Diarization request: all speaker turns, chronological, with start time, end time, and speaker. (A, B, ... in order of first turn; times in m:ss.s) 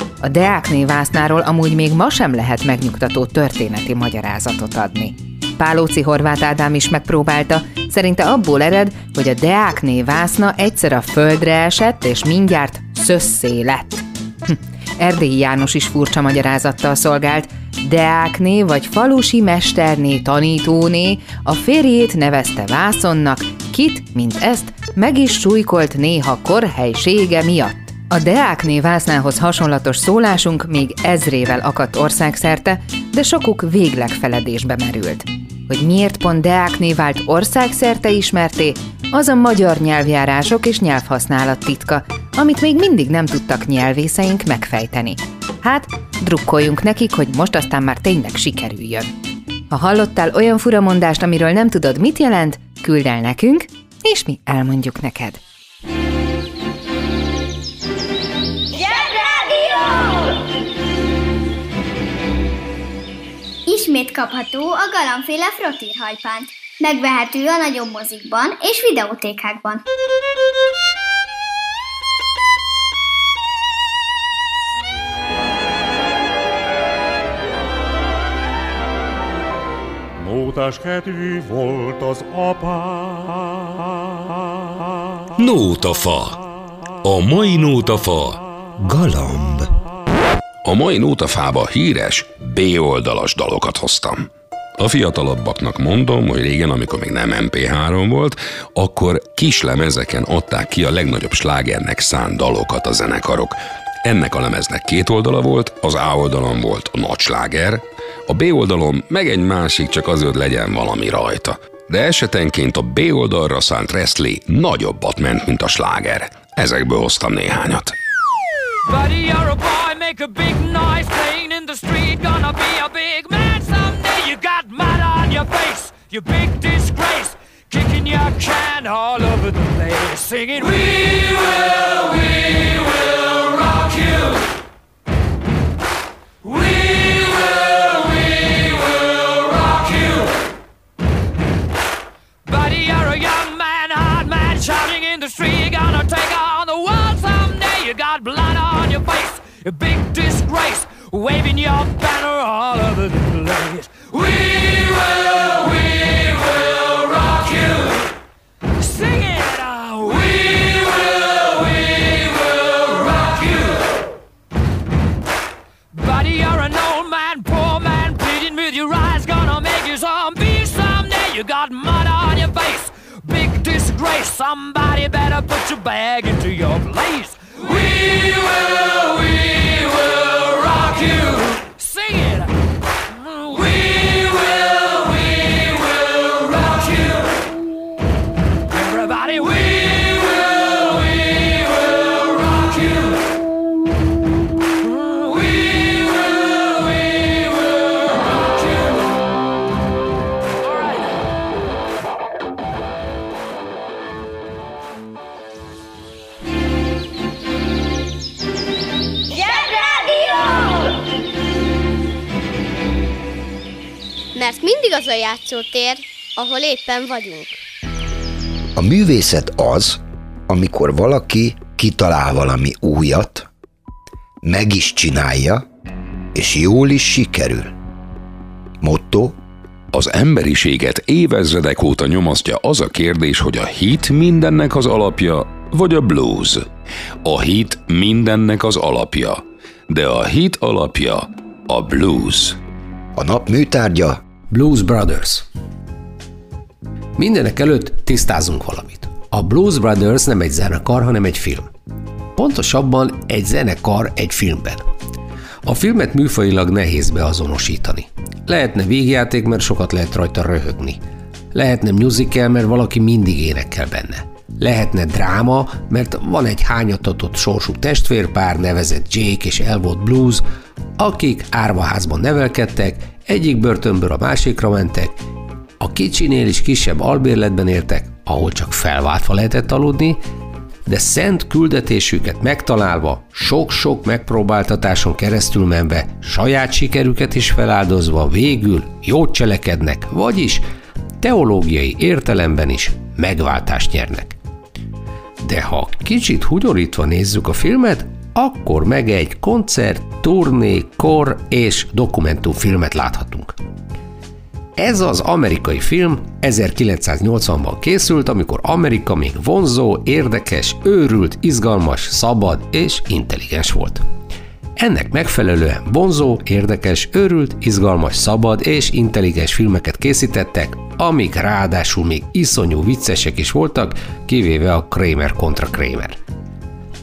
0:00.2-0:49.1 A
0:49.7-0:55.4 A
1:03.7-1:09.8 B
1:20.2-1:23.3 C
1:25.4-1:26.4 D
1:27.0-1:28.4 D
1:28.8-1:29.7 E
1:30.6-1:58.0 D
1:58.9-2:14.4 F
2:16.4-2:20.3 F
2:22.5-2:38.0 F
2:38.8-2:44.0 F
2:45.9-3:02.6 F
3:03.1-3:07.3 F
3:08.7-3:13.2 F
3:14.8-3:19.1 F
3:20.6-3:21.2 F
3:34.4-3:37.6 G
3:38.8-3:43.5 E
3:44.4-3:45.6 E
3:46.3-3:47.7 E
3:48.8-3:49.4 E
3:49.9-3:56.7 D
3:57.2-4:02.6 D
4:03.2-4:04.2 E
4:04.5-4:05.5 H
4:07.2-4:11.7 H
4:12.4-4:14.8 H
4:15.6-4:21.0 H
4:21.5-4:30.4 H
4:31.0-4:35.2 H
4:35.8-4:40.2 H
4:40.9-4:50.6 H
4:51.2-4:54.4 H
4:55.4-5:03.6 H
5:04.8-5:14.0 H
5:14.8-5:26.2 H